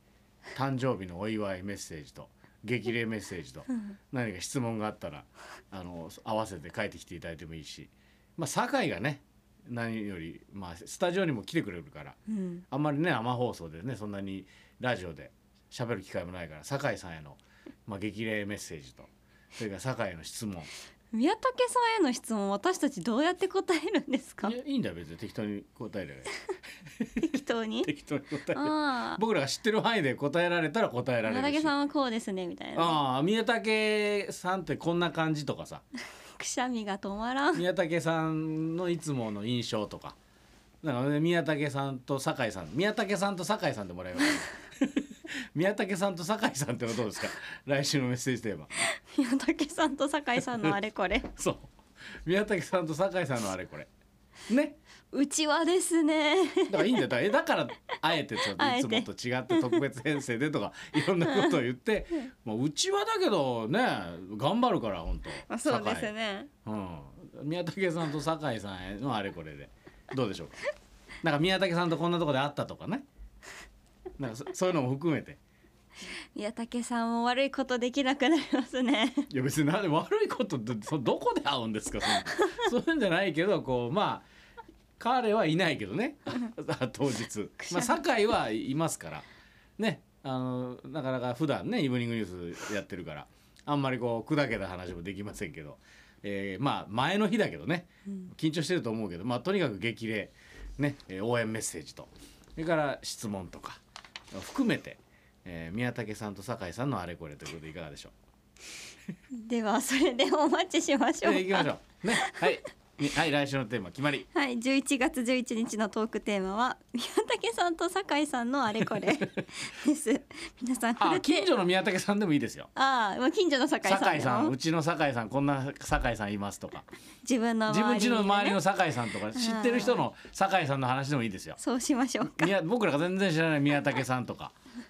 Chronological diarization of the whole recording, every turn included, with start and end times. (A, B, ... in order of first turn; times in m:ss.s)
0:00.5-0:12.2 A
0:12.3-0:12.6 B
0:12.7-0:20.7 A
0:21.1-0:24.5 B
0:24.4-0:26.3 A
0:27.0-0:31.7 A
0:27.2-0:27.9 B
0:28.5-0:29.2 B
0:31.2-0:33.0 B
0:32.7-0:35.8 A
0:36.4-0:37.6 B
0:37.5-0:40.2 A
0:40.8-0:48.8 A
0:48.8-0:51.3 B
0:50.4-0:50.8 A
0:51.4-0:51.7 A
0:52.2-0:53.9 A
0:54.5-0:54.8 A
0:55.1-0:57.0 B
0:56.7-1:06.1 A
0:58.5-0:59.8 B
1:01.2-1:01.5 B
1:05.4-1:06.5 B
1:06.6-1:10.6 A
1:11.2-1:13.0 A
1:14.2-1:15.4 A
1:16.3-1:19.3 B
1:19.3-1:24.2 A
1:22.3-1:22.6 B
1:25.0-1:29.2 A
1:27.6-1:28.0 B
1:29.8-1:43.8 A
1:44.3-1:48.1 A
1:49.3-1:52.4 B
1:51.2-1:54.2 A
1:54.2-2:01.5 B
2:01.0-2:02.7 A
2:02.7-2:04.5 B
2:03.8-2:06.9 A
2:07.2-2:08.6 B
2:07.7-2:11.6 A
2:09.3-2:10.0 B
2:11.6-2:12.5 B
2:12.2-2:14.5 A